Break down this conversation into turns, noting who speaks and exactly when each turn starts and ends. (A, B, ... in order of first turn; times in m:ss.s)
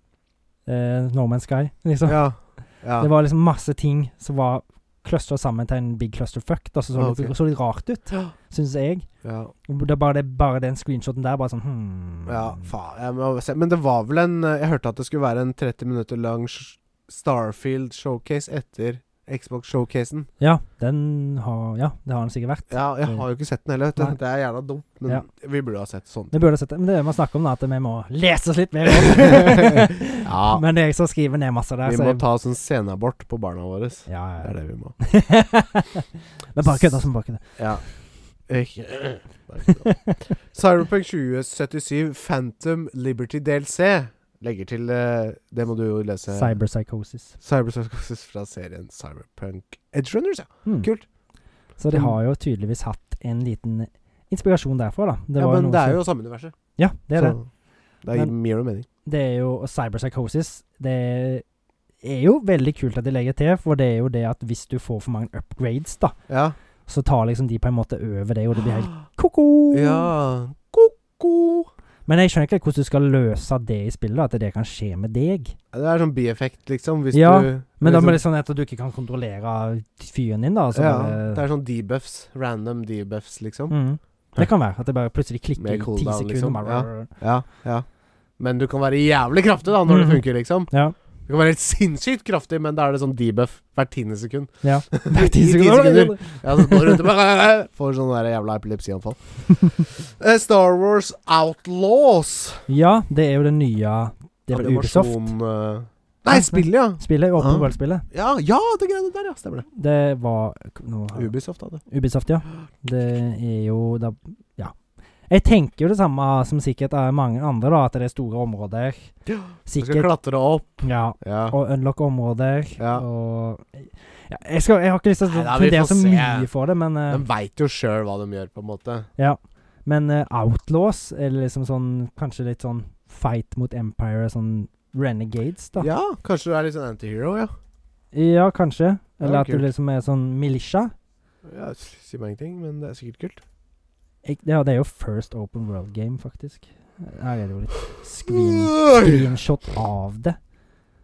0:00.6-0:09.1 A
0:02.0-0:03.1 B
0:07.0-0:07.3 B
0:09.2-0:09.5 B
0:09.7-0:12.7 A
0:12.3-0:20.3 B
0:20.4-0:23.2 A
0:22.7-0:26.3 B
0:26.3-0:32.2 A
0:28.9-0:30.6 B
0:31.8-0:35.0 B
0:34.1-0:37.6 A
0:36.6-0:37.8 B
0:38.5-0:46.6 B
0:39.7-0:40.2 A
0:46.3-0:47.3 A
0:47.4-0:51.0 B
0:51.8-0:56.0 A
0:55.4-0:56.5 B
0:56.8-0:57.4 A
0:57.1-0:57.4 B
0:58.0-0:58.8 B
0:59.0-1:01.4 A
1:02.0-1:06.2 A
1:06.3-1:06.6 B
1:06.9-1:10.1 A
1:09.7-1:11.7 B
1:12.0-1:15.6 A
1:15.7-1:18.2 B
1:17.1-1:21.4 A
1:20.7-1:23.7 B
1:23.7-1:27.1 A
1:25.6-1:27.8 B
1:28.4-1:30.7 B
1:29.9-1:30.9 A
1:31.3-1:42.7 B
1:34.6-1:37.0 A
1:42.7-1:45.3 A
1:44.5-1:49.6 B
1:46.3-1:48.0 A
1:49.8-1:51.3 A
1:51.1-1:51.8 B
1:51.8-1:54.8 A
1:55.3-1:59.1 A
1:59.2-2:01.6 B
1:59.6-2:00.1 A
2:00.8-2:07.2 A
2:02.8-2:03.0 B
2:05.2-2:06.5 B
2:07.1-2:09.1 B
2:09.2-2:15.9 A
2:15.8-2:17.5 B
2:18.1-2:20.9 A
2:19.2-2:19.7 B
2:21.4-2:23.4 B
2:24.2-2:30.4 A
2:28.2-2:29.3 B